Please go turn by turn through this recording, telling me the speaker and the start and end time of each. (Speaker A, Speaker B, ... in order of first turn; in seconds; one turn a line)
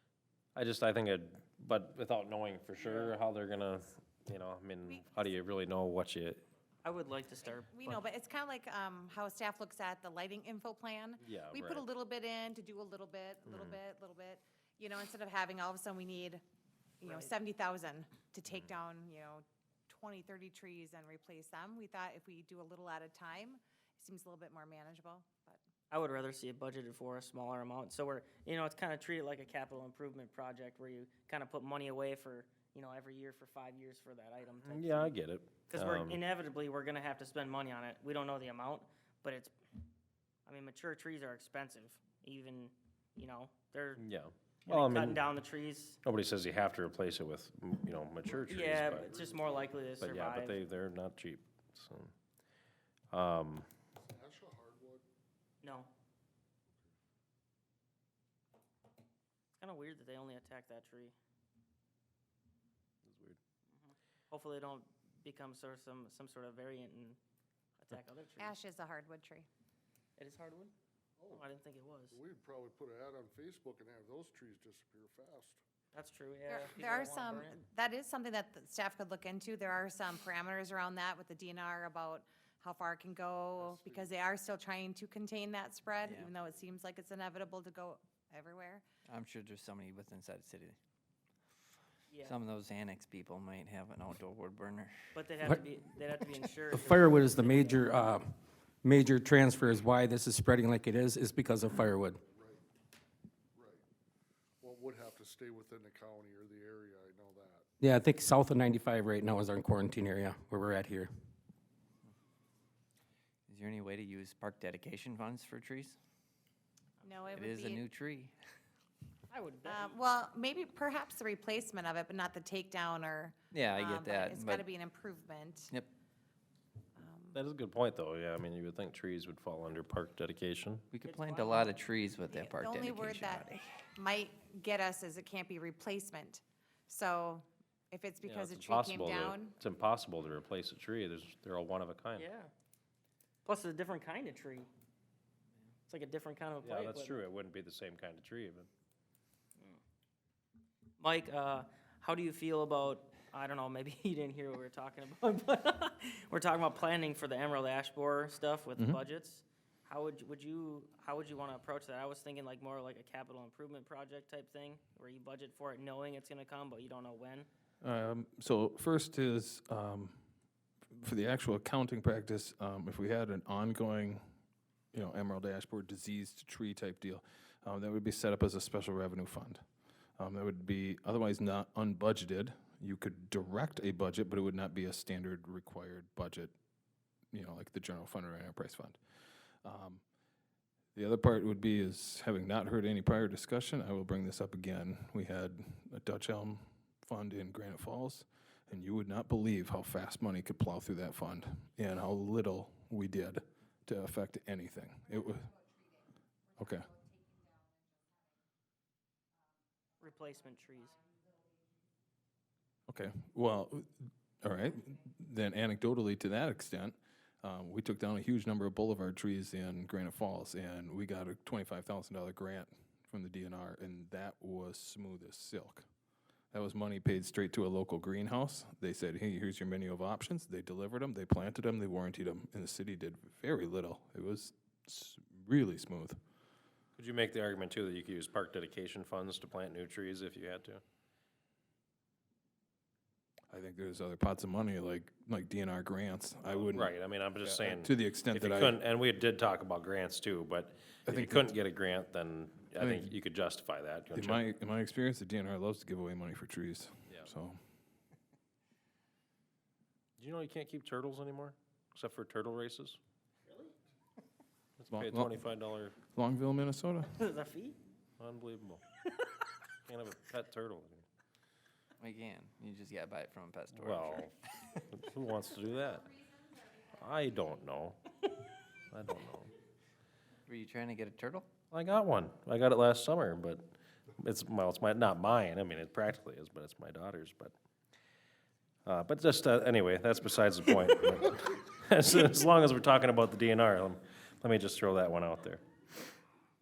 Speaker A: 0.5-6.4
Speaker B: 4.9-5.3
Speaker C: 6.8-7.7
Speaker B: 7.4-16.4
Speaker A: 11.2-11.8
Speaker A: 13.4-13.8
Speaker B: 17.0-25.6
Speaker C: 17.0-17.3
Speaker C: 25.9-35.1
Speaker A: 34.6-36.2
Speaker C: 35.7-39.5
Speaker C: 40.5-44.0
Speaker A: 44.0-45.2
Speaker C: 44.6-46.0
Speaker A: 46.0-49.1
Speaker D: 48.3-49.9
Speaker C: 48.5-50.6
Speaker A: 50.0-52.1
Speaker A: 53.1-53.7
Speaker D: 54.0-55.0
Speaker C: 55.6-55.9
Speaker C: 59.6-61.1
Speaker A: 63.0-63.4
Speaker C: 63.7-67.2
Speaker C: 67.8-68.6
Speaker B: 68.4-69.5
Speaker C: 70.2-70.7
Speaker D: 71.2-71.4
Speaker C: 71.3-72.2
Speaker D: 72.1-75.6
Speaker C: 75.9-77.6
Speaker B: 76.5-88.8
Speaker D: 83.6-84.0
Speaker E: 86.0-86.3
Speaker E: 89.1-90.8
Speaker C: 92.1-92.4
Speaker E: 92.2-95.1
Speaker C: 95.1-98.0
Speaker F: 96.7-102.2
Speaker D: 102.3-102.6
Speaker D: 103.5-103.8
Speaker D: 104.6-107.7
Speaker F: 107.8-111.1
Speaker E: 113.5-116.0
Speaker C: 117.0-117.3
Speaker B: 117.0-117.8
Speaker E: 117.3-118.3
Speaker C: 119.3-120.0
Speaker B: 119.7-125.7
Speaker E: 123.5-124.7
Speaker B: 127.0-127.4
Speaker A: 127.3-130.8
Speaker E: 130.9-133.9
Speaker C: 131.0-131.8
Speaker B: 132.3-139.5
Speaker A: 138.2-142.3
Speaker C: 142.2-142.5
Speaker C: 143.4-144.7
Speaker C: 145.9-147.2
Speaker A: 146.6-148.7
Speaker C: 151.0-167.5
Speaker G: 167.8-170.2
Speaker G: 170.9-174.2
Speaker G: 174.9-179.6
Speaker G: 180.2-186.5
Speaker G: 187.3-189.0
Speaker G: 189.6-190.0
Speaker G: 190.9-205.5
Speaker G: 206.6-206.9
Speaker C: 210.0-210.9
Speaker G: 212.9-213.9
Speaker G: 214.4-225.8
Speaker G: 226.5-236.2
Speaker A: 236.9-240.8
Speaker G: 243.5-248.8
Speaker A: 246.5-254.4
Speaker G: 251.1-251.5
Speaker G: 252.8-253.1
Speaker G: 254.1-257.6
Speaker A: 260.2-263.0
Speaker A: 264.8-265.9
Speaker G: 264.9-265.3
Speaker G: 266.1-267.2
Speaker C: 267.1-267.8
Speaker A: 268.2-268.8
Speaker A: 269.9-271.1
Speaker E: 272.0-274.3
Speaker A: 273.7-274.3
Speaker A: 274.9-276.1
Speaker A: 276.8-278.1
Speaker A: 278.9-279.5
Speaker E: 280.5-281.5
Speaker A: 281.7-287.5
Speaker A: 288.8-295.6